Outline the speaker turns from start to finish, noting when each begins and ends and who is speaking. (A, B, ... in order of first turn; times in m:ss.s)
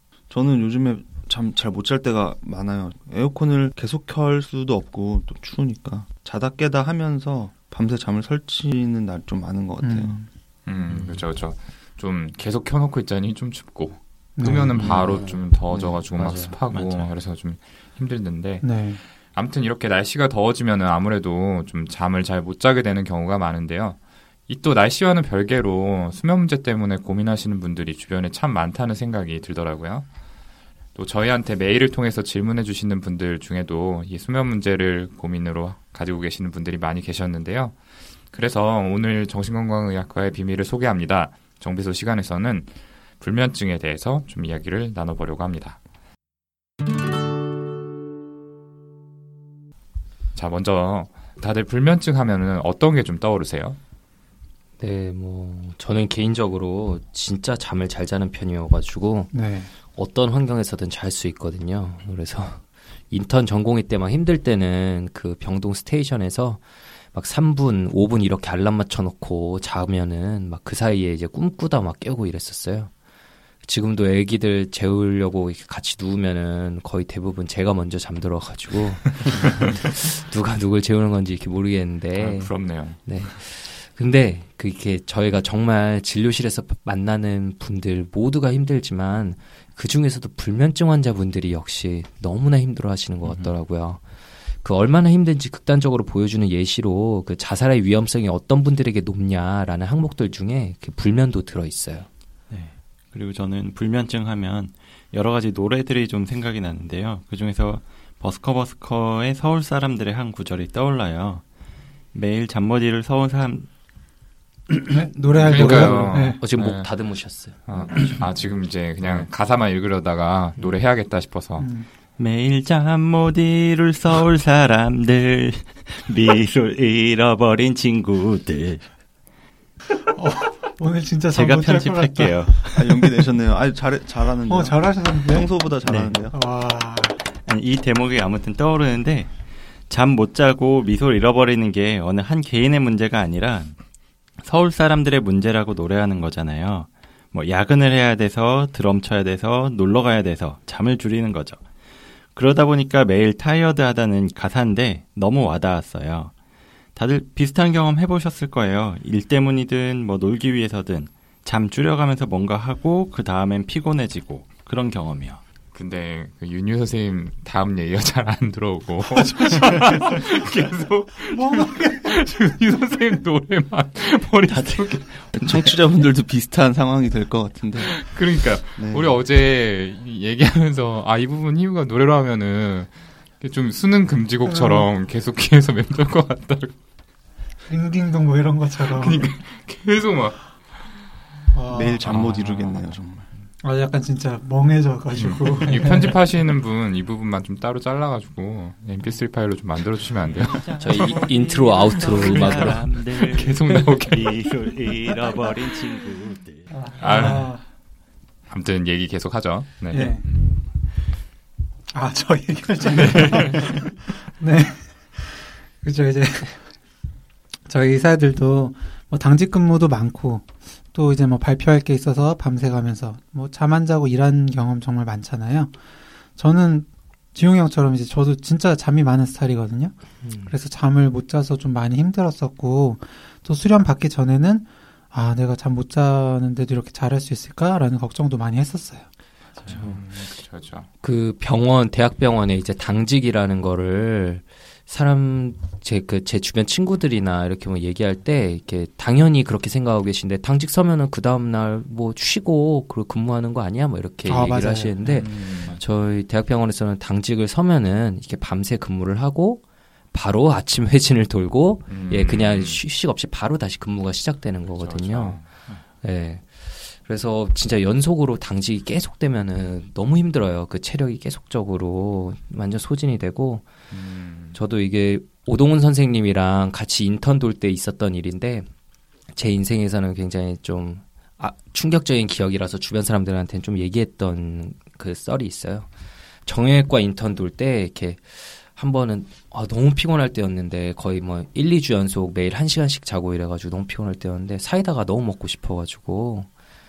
0:00.3-0:10.2 A
0:09.8-0:10.3 B
0:10.7-0:30.1 C
0:14.4-0:14.9 B
0:14.8-0:15.5 D
0:15.7-0:16.0 A
0:16.0-0:16.6 D
0:16.7-0:17.1 E
0:18.6-0:19.0 B
0:31.0-0:45.8 C
0:50.4-0:53.8 C
0:54.8-0:59.3 D
0:59.3-0:59.7 B
0:59.9-1:12.9 D
1:13.6-1:34.0 D
1:22.1-1:23.2 C
1:33.2-1:33.5 E
1:34.6-1:42.1 D
1:42.5-1:51.4 E
1:52.1-1:53.7 E
1:54.7-1:56.4 B
1:55.3-1:56.9 C
1:55.5-1:58.5 D
1:57.6-2:01.7 C
2:01.6-2:01.9 B
2:02.2-2:08.9 E
2:10.0-2:12.5 B
2:11.3-2:13.0 E
2:12.8-2:16.4 A
2:14.5-2:15.5 B
2:15.8-2:16.1 E
2:16.3-2:17.2 B
2:17.4-2:23.8 E
2:24.4-2:31.6 E
2:32.4-2:36.3 E
2:37.0-2:45.4 E
2:45.7-2:55.6 C
2:49.2-2:50.2 B
2:51.3-2:52.1 B
2:54.5-2:55.4 E
2:55.3-2:58.0 A
2:57.8-3:06.8 C
2:58.8-2:59.2 A
3:04.5-3:04.9 B
3:07.7-3:09.3 B
3:08.8-3:11.1 C
3:11.5-3:12.0 B
3:11.7-3:13.3 A
3:12.0-3:13.0 C
3:13.6-3:16.2 B
3:15.1-3:20.7 C
3:20.3-3:27.0 E
3:20.8-3:22.9 D
3:22.1-3:24.6 C
3:26.7-3:27.7 B
3:27.0-3:27.6 C
3:28.5-3:30.7 C
3:29.9-3:30.2 B
3:31.9-3:36.7 B
3:33.0-3:33.6 C
3:37.7-3:45.7 B
3:46.4-3:59.1 B
3:50.2-3:50.5 D
3:59.7-4:00.9 C
4:01.0-4:25.4 D
4:14.2-4:15.2 B
4:15.2-4:15.8 C
4:21.9-4:22.8 C
4:24.8-4:25.5 C
4:26.0-4:33.7 D
4:33.9-4:34.6 C
4:34.5-4:38.7 D
4:39.3-4:45.9 D
4:46.4-4:56.5 D